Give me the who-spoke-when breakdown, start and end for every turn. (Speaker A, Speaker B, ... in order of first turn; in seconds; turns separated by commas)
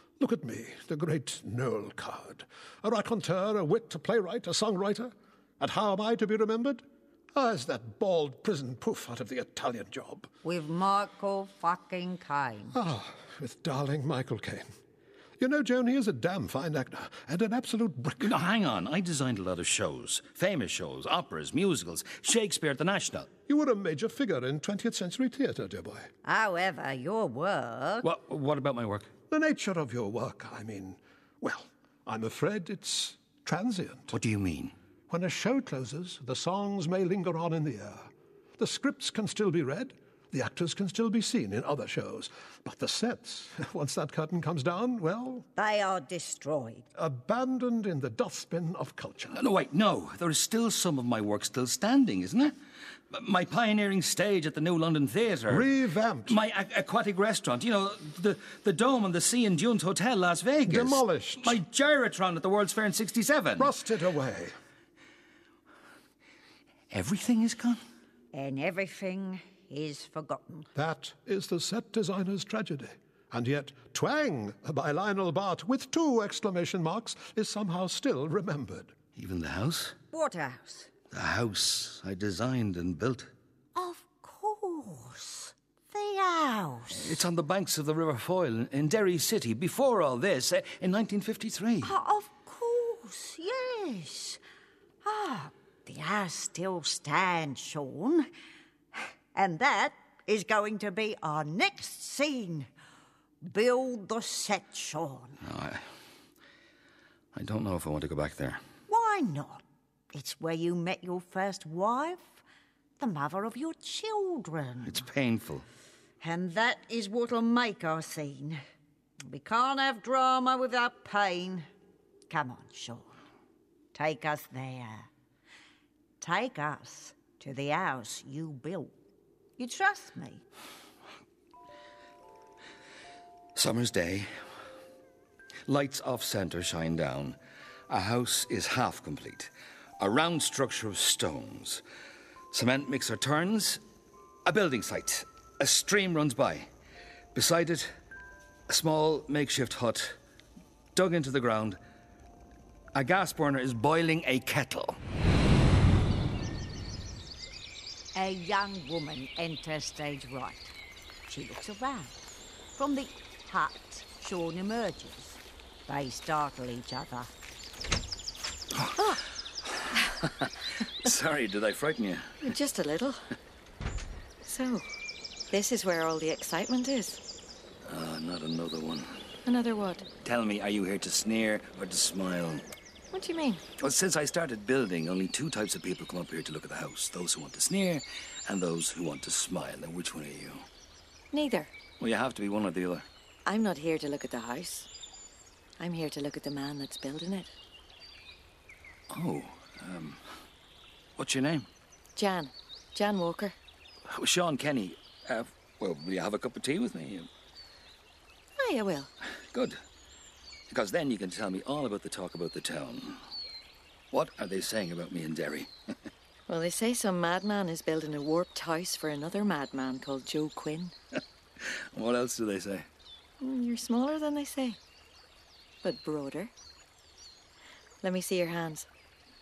Speaker A: 0.2-10.3, Speaker B: 10.4-12.8, Speaker A: 12.7-14.6, Speaker A: 15.4-18.3, Speaker C: 18.2-23.3, Speaker A: 23.5-26.1, Speaker B: 26.2-28.0, Speaker C: 28.0-29.1, Speaker A: 29.3-34.1, Speaker C: 34.1-34.7, Speaker A: 35.1-45.5, Speaker B: 45.6-46.9, Speaker A: 47.0-49.4, Speaker C: 49.3-52.5, Speaker C: 53.1-55.7, Speaker A: 55.5-56.4, Speaker C: 56.2-63.7, Speaker A: 60.6-61.6, Speaker A: 63.6-64.5, Speaker C: 66.9-67.8, Speaker B: 68.3-70.7, Speaker A: 70.7-78.9, Speaker C: 79.2-80.0, Speaker B: 80.1-80.9, Speaker C: 81.1-83.3, Speaker B: 83.7-87.2, Speaker C: 86.9-91.9, Speaker B: 91.8-94.4, Speaker B: 95.0-98.3, Speaker B: 99.3-102.7, Speaker B: 103.4-105.4, Speaker C: 105.4-105.8, Speaker C: 107.3-108.6, Speaker B: 108.9-112.4, Speaker B: 113.0-115.0, Speaker C: 114.8-115.6, Speaker B: 116.2-118.6, Speaker B: 119.3-121.7, Speaker B: 122.3-123.1, Speaker B: 123.9-125.1, Speaker B: 126.2-128.9, Speaker B: 129.6-130.4, Speaker C: 133.5-134.3, Speaker C: 135.7-137.4, Speaker C: 137.9-141.8, Speaker C: 142.5-143.8, Speaker C: 144.4-146.7, Speaker C: 147.3-147.9, Speaker C: 148.7-150.2, Speaker C: 150.9-151.8, Speaker C: 152.9-155.0, Speaker B: 158.1-160.7, Speaker B: 161.3-162.2, Speaker B: 162.8-167.3, Speaker C: 171.0-172.5, Speaker D: 172.4-173.2, Speaker D: 174.4-174.9, Speaker D: 175.5-177.2, Speaker C: 177.8-179.1, Speaker D: 179.4-180.1, Speaker C: 180.2-182.6, Speaker D: 183.1-183.6, Speaker C: 183.8-190.7, Speaker D: 191.3-191.7, Speaker C: 192.0-193.1, Speaker D: 193.4-194.9, Speaker D: 195.8-197.5, Speaker C: 199.1-200.3, Speaker C: 201.2-201.7, Speaker D: 202.2-203.5, Speaker C: 204.1-207.3, Speaker D: 208.6-209.1, Speaker C: 209.5-209.8, Speaker C: 210.7-213.2, Speaker C: 214.1-215.7, Speaker D: 216.5-220.9, Speaker C: 221.6-222.8, Speaker D: 223.4-224.8, Speaker D: 225.8-226.5, Speaker D: 228.0-228.9